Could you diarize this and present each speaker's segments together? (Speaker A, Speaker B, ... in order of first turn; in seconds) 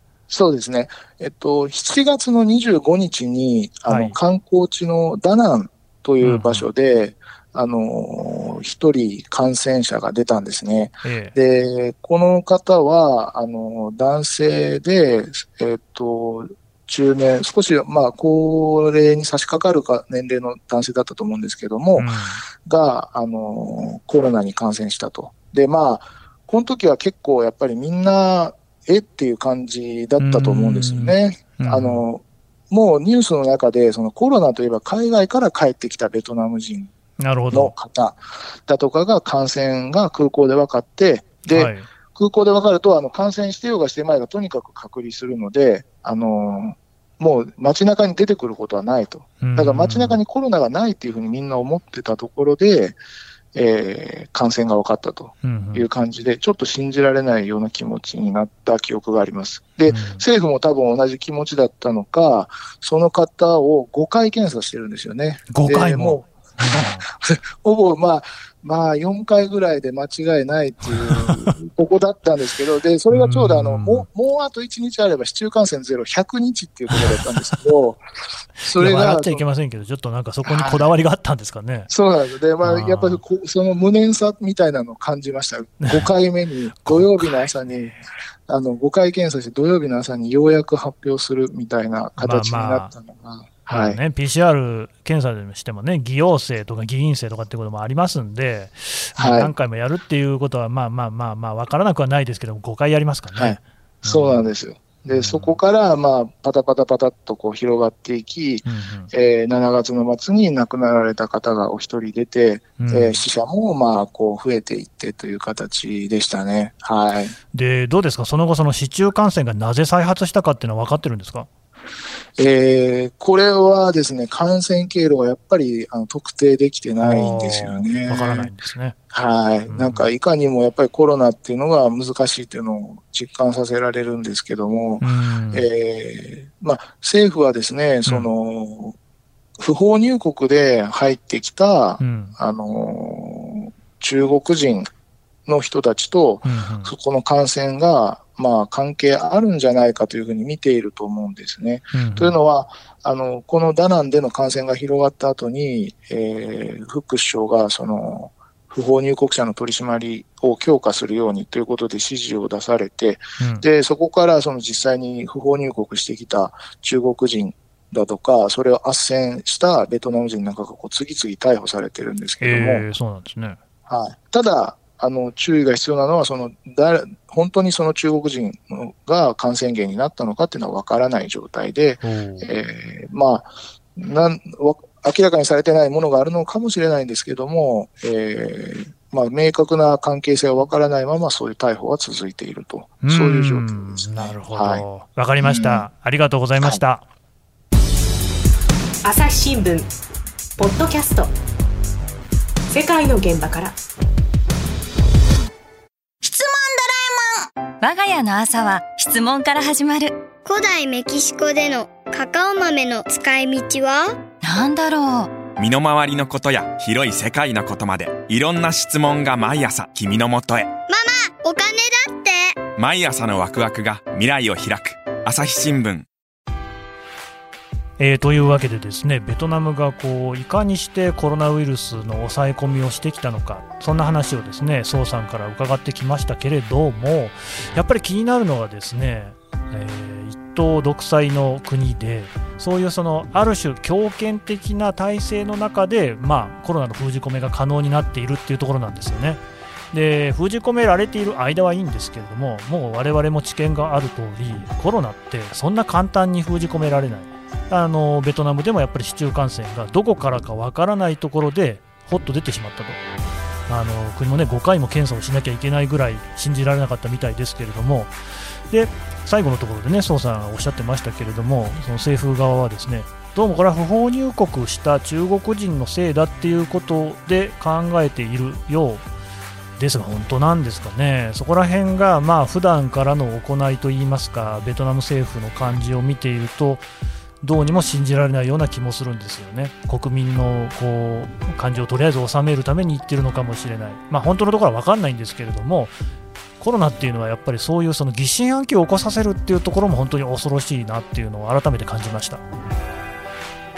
Speaker A: 0.3-36.9, 37.5-53.0, 53.5-78.0, 78.6-79.4, 80.5-80.9, 81.9-94.0, 99.2-99.5, 103.4-117.4, 122.4-128.5, 129.1-139.0, 139.6-144.9, 145.5-172.8, 173.9-194.8, 195.4-195.9
Speaker B: 3.9-4.2, 6.2-6.7, 11.0-11.4, 22.0-22.4, 30.2-32.0, 37.2-37.7, 41.5-41.9, 49.4-50.2, 55.4-55.9, 59.9-60.2, 65.5-67.0, 71.0-71.6, 73.1-74.1, 76.9-77.6, 78.8-81.9, 82.6-83.2, 85.8-86.1, 86.8-88.0, 92.2-92.9, 93.7-104.5, 105.1-105.6, 108.7-109.1, 112.8-113.2, 117.5-121.5, 127.0-129.0, 129.7-130.1, 135.0-135.7, 138.1-138.3, 142.0-142.3, 146.4-146.9, 151.9-152.4, 163.4-163.7, 172.4-173.6, 182.0-182.5, 193.0-197.1, 228.0-263.0, 263.7-268.1, 268.7-279.0, 279.8-286.9, 287.4-295.9, 296.6-302.4
Speaker C: 199.0-199.9, 200.6-201.3, 202.7-203.8
Speaker D: 206.2-210.2, 214.4-215.4
Speaker E: 210.4-214.2, 220.9-222.6
Speaker F: 215.5-220.7, 222.8-226.1